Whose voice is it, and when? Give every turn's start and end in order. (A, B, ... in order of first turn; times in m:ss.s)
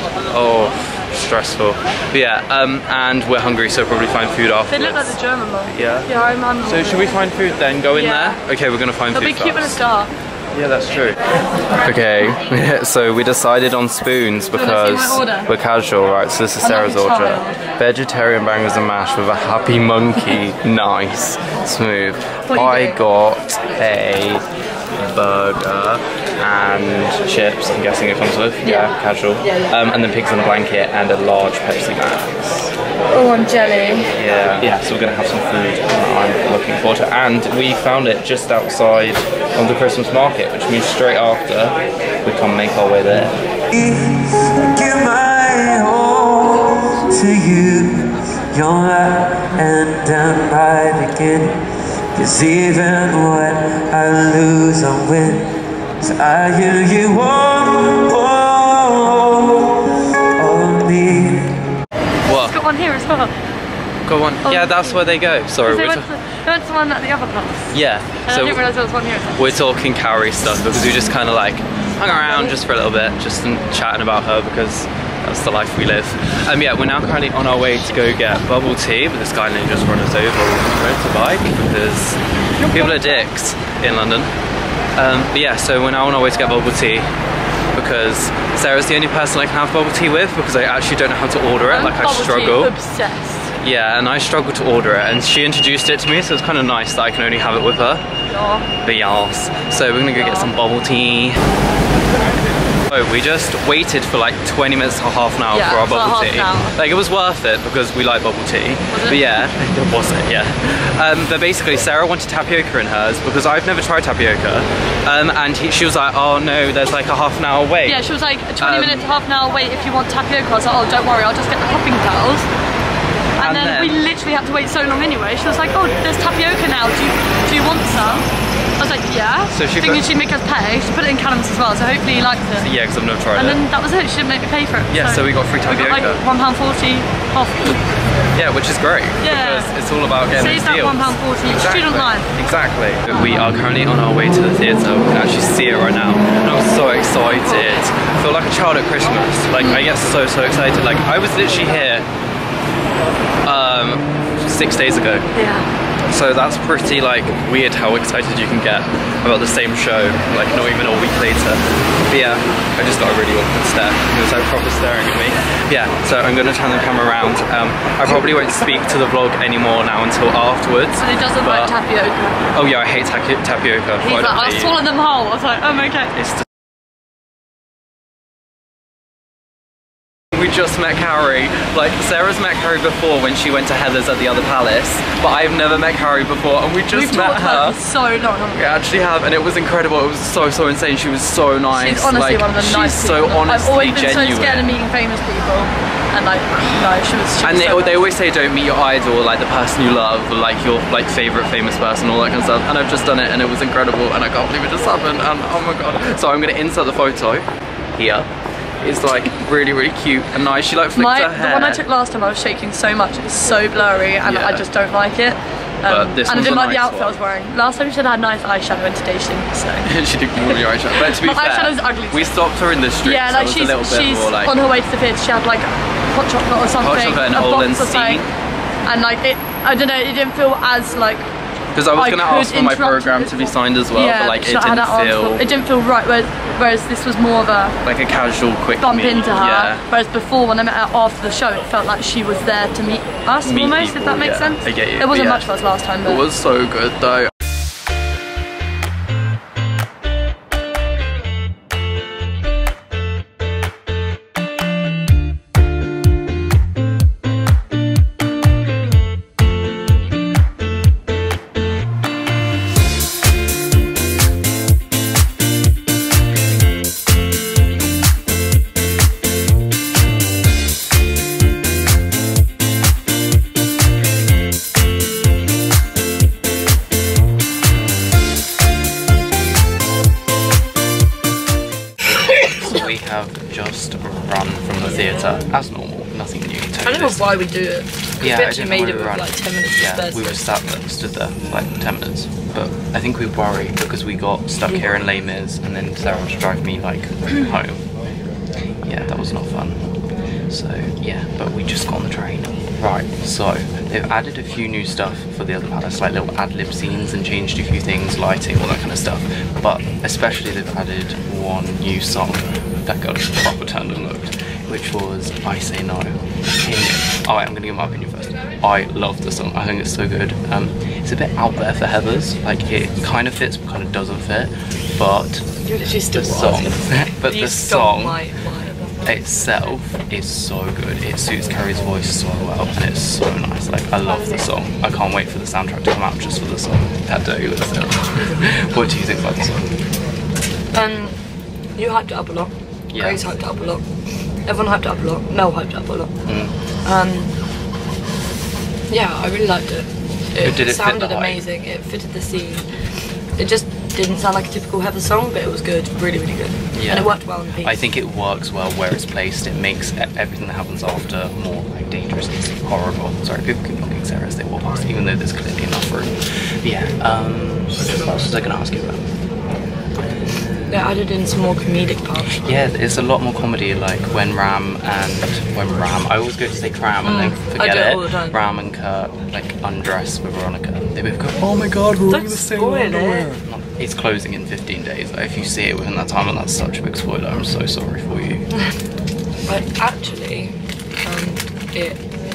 0:00.2-0:06.1 A
0:04.7-0:07.1 B
0:06.6-0:09.8 A
0:07.9-0:08.4 B
0:09.1-0:10.1 B
0:10.5-0:11.2 A
0:11.8-0:24.4 A
0:14.5-0:15.5 B
0:16.6-0:17.6 B
0:22.4-0:23.0 B
0:25.0-0:32.7 A
0:28.6-0:28.9 B
0:33.1-0:34.1 B
0:34.1-0:43.4 A
0:43.7-1:01.6 C
1:02.2-1:02.6 A
1:02.2-1:03.3 B
1:04.0-1:06.1 A
1:04.4-1:05.0 B
1:05.6-1:07.7 B
1:07.7-1:08.6 A
1:08.2-1:09.6 B
1:09.4-1:22.2 A
1:22.7-1:24.3 A
1:25.0-1:27.1 A
1:27.7-1:32.7 A
1:31.6-1:33.5 B
1:33.6-1:38.0 A
1:38.3-1:38.7 B
1:38.8-1:41.4 A
1:40.1-1:40.5 B
1:42.9-1:58.0 A
1:45.5-1:46.8 B
1:48.9-1:49.2 B
1:57.8-2:02.5 B
1:58.6-1:59.0 A
2:03.4-2:08.3 B
2:03.4-2:04.0 A
2:08.8-2:12.7 B
2:09.5-2:10.0 A
2:12.6-2:13.6 A
2:13.3-2:17.8 B
2:14.9-2:16.2 A
2:18.3-2:32.0 A
2:19.2-2:19.8 B
2:20.3-2:22.3 B
2:27.4-2:27.7 B
2:29.6-2:29.8 B
2:33.4-2:35.3 A
2:35.4-2:35.6 B
2:36.1-2:51.7 A
2:51.0-2:52.4 B
2:52.5-2:54.8 A
2:54.0-2:56.1 B
2:56.1-2:56.4 A
3:00.3-3:07.8 A
3:06.9-3:08.8 B
3:08.5-3:14.7 A
3:11.7-3:18.0 B
3:17.4-3:27.4 A
3:28.0-3:28.3 A
3:28.8-3:31.8 A
3:30.9-3:39.9 B
3:34.2-3:34.6 A
3:35.9-3:37.2 A
3:39.8-3:44.5 A
3:40.4-3:42.3 B
3:43.0-3:48.2 B
3:46.8-3:48.3 A
3:48.8-3:51.2 B
3:51.7-3:55.4 A
3:51.9-3:57.8 B
3:57.8-3:59.8 A
3:58.8-4:06.2 B
4:03.4-4:05.5 A
4:06.0-4:07.3 A
4:42.1-4:47.3 A
4:42.4-4:42.8 D
4:46.8-4:50.4 D
4:48.2-4:57.8 A
4:54.7-4:55.0 D
4:58.8-4:59.9 A
5:00.5-5:28.2 A
5:25.6-5:28.9 D
5:29.0-5:39.7 A
5:40.7-5:41.2 D
5:41.8-5:43.8 D
5:42.9-5:43.2 A
5:44.4-5:46.1 D
5:46.2-5:46.5 A
5:46.8-5:47.3 D
5:48.9-5:52.6 D
5:50.4-5:51.4 A
5:53.4-5:57.8 D
5:56.7-6:09.1 A
6:10.2-6:11.0 A
6:10.7-6:12.4 D
6:12.3-6:28.5 A
6:17.0-6:18.4 D
6:21.8-6:23.4 D
6:29.5-6:32.0 D